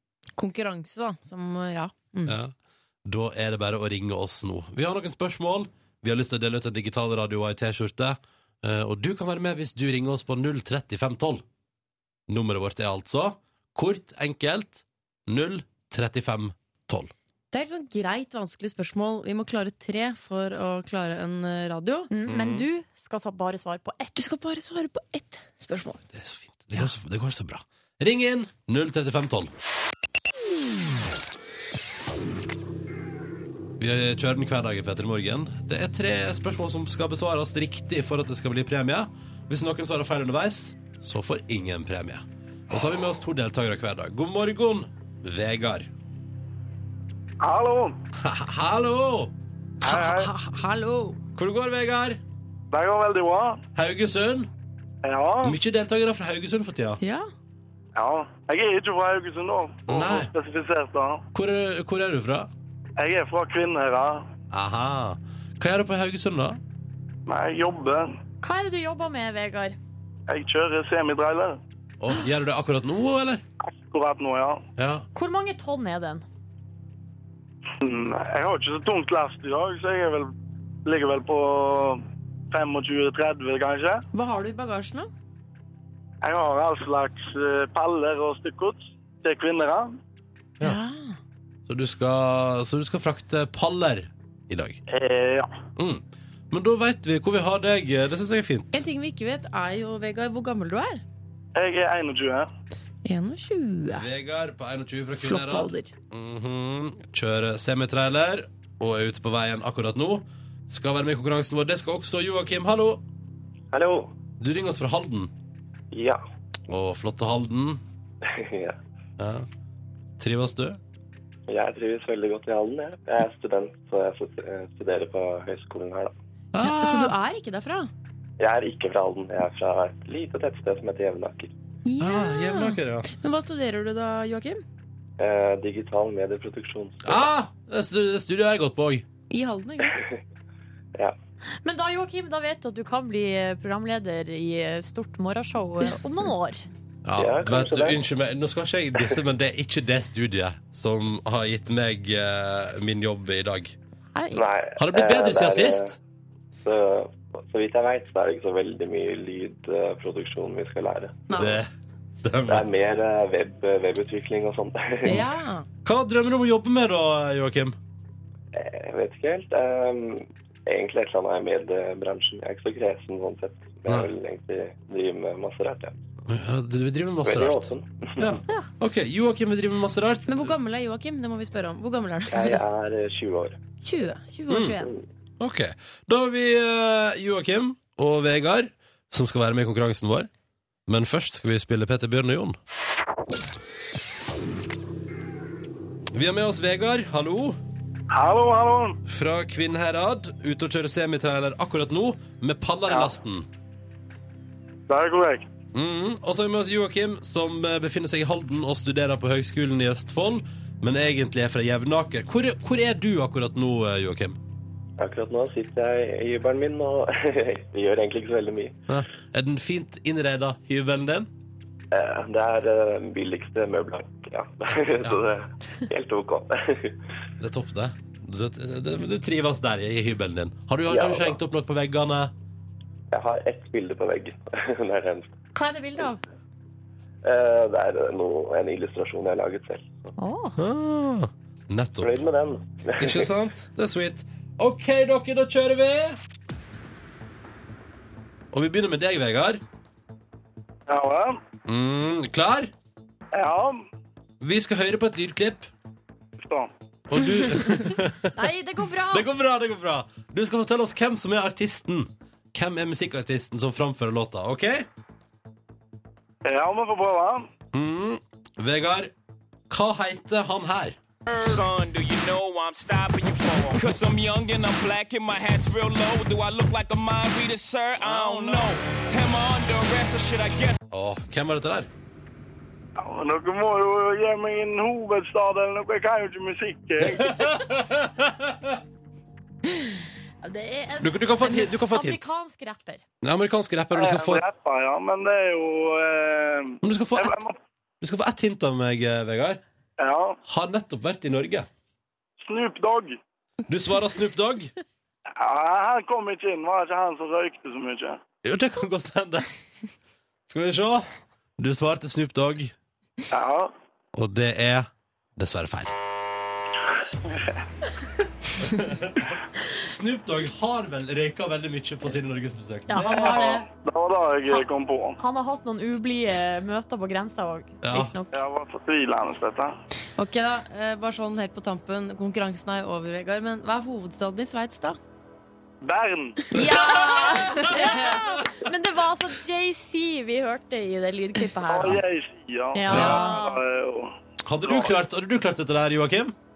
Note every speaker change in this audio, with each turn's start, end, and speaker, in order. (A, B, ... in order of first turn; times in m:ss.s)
0:00.4-0:02.4 A
0:02.2-0:11.4 B
0:12.3-0:17.1 B
0:17.5-0:22.1 A
0:22.1-0:24.2 C
0:22.2-0:22.7 B
0:24.2-0:26.0 A
0:26.1-0:29.5 B
0:33.8-0:45.9 B
0:47.4-0:47.9 D
0:48.2-0:49.3 B
0:49.8-0:51.2 A
0:49.8-0:50.3 D
0:51.3-0:52.2 B
0:52.7-0:53.6 D
0:53.7-0:54.5 B
0:55.0-0:55.6 D
0:55.4-0:57.0 B
0:57.0-0:57.3 A
0:58.0-1:01.2 D
0:59.9-1:00.3 B
1:01.3-1:02.5 B
1:03.0-1:04.3 D
1:04.5-1:06.6 B
1:07.2-1:08.1 D
1:08.4-1:09.8 C
1:10.3-1:11.6 D
1:12.0-1:13.4 B
1:13.8-1:14.6 D
1:14.8-1:15.1 B
1:15.1-1:16.2 C
1:17.8-1:20.3 D
1:20.8-1:24.0 D
1:24.1-1:25.1 A
1:26.2-1:30.0 D
1:30.6-1:31.2 A
1:31.7-1:34.8 B
1:34.9-1:35.5 D
1:35.8-1:38.8 B
1:38.7-1:41.0 A
1:41.5-1:42.5 D
1:43.0-1:44.1 A
1:43.9-1:53.0 B
1:45.2-1:45.9 A
1:53.7-1:54.1 E
1:54.4-1:55.3 B
1:55.9-1:56.2 E
1:56.7-1:57.8 B
1:58.2-1:58.8 E
1:59.2-1:59.4 B
2:00.2-2:00.8 B
2:01.5-2:06.1 E
2:06.5-2:07.1 B
2:06.6-2:07.9 A
2:08.4-2:11.5 E
2:11.8-2:14.6 A
2:12.0-2:13.1 B
2:15.2-2:17.2 E
2:17.0-2:19.0 B
2:19.3-2:20.0 A
2:19.9-2:20.1 E
2:21.6-2:26.6 C
2:27.0-2:33.7 B
2:27.2-2:28.0 E
2:34.1-2:34.4 C
2:34.3-2:35.9 E
2:34.8-2:36.0 B
2:36.6-2:41.3 E
2:41.3-2:41.6 A
2:41.4-2:42.7 B
2:42.5-2:45.2 E
2:45.0-2:45.6 A
2:45.8-2:47.8 B
2:48.5-2:56.0 E
2:56.3-3:00.6 B
2:57.2-2:58.4 E
3:00.3-3:02.6 A
3:02.3-3:03.6 E
3:03.8-3:04.9 A
3:04.5-3:04.8 B
3:05.4-3:10.3 B
3:10.9-3:12.6 B
3:16.1-3:17.6 B
3:18.1-3:19.0 D
3:19.0-3:23.5 B
3:22.9-3:23.1 D
3:24.9-3:25.5 D
3:25.7-3:34.4 B
3:35.0-3:38.8 E
3:38.9-3:41.3 B
3:41.9-3:47.0 E
3:44.7-3:45.2 B
3:47.4-3:52.3 B
3:50.9-3:51.4 E
3:53.1-3:55.3 E
3:55.5-3:56.2 C
3:57.2-4:00.1 E
4:00.2-4:00.6 C
4:00.6-4:02.2 B
4:02.0-4:03.2 E
4:03.0-4:06.2 B
4:08.5-4:09.6 B
4:10.9-4:11.4 D
4:11.6-4:12.7 B
4:13.3-4:13.8 D
4:14.4-4:15.7 B
4:16.4-4:16.7 D
4:17.1-4:18.4 B
4:18.3-4:19.3 C
4:19.1-4:24.9 B
4:26.4-4:27.5 D
4:27.7-4:29.1 B
4:29.7-4:31.6 B
4:31.3-4:40.8 F
4:40.9-4:41.9 B
4:43.0-4:47.5 D
4:47.0-4:48.8 B
4:50.4-4:53.0 C
4:51.0-4:52.3 B
4:53.2-4:54.4 B
4:53.9-4:57.6 D
4:56.8-4:57.4 B
4:58.0-4:59.6 B
5:00.0-5:00.4 D
5:00.4-5:01.7 B
5:02.4-5:03.2 D
5:03.7-5:04.7 B
5:05.4-5:08.2 D
5:08.4-5:09.5 B
5:10.5-5:11.1 B
5:11.6-5:12.7 B
5:13.3-5:13.7 D
5:14.1-5:15.9 B
5:17.3-5:17.6 D
5:18.6-5:23.5 B
5:22.9-5:23.6 C
5:23.0-5:25.2 D
5:25.2-5:28.4 C
5:27.8-5:28.1 B
5:28.3-5:29.7 D
5:30.2-5:35.0 A
5:35.8-5:37.1 D
5:36.5-5:38.1 A
5:37.5-5:42.0 C
5:41.7-5:45.0 D
5:42.7-5:43.6 C
5:42.9-5:43.2 B
5:42.9-5:43.4 A
5:44.4-5:46.3 B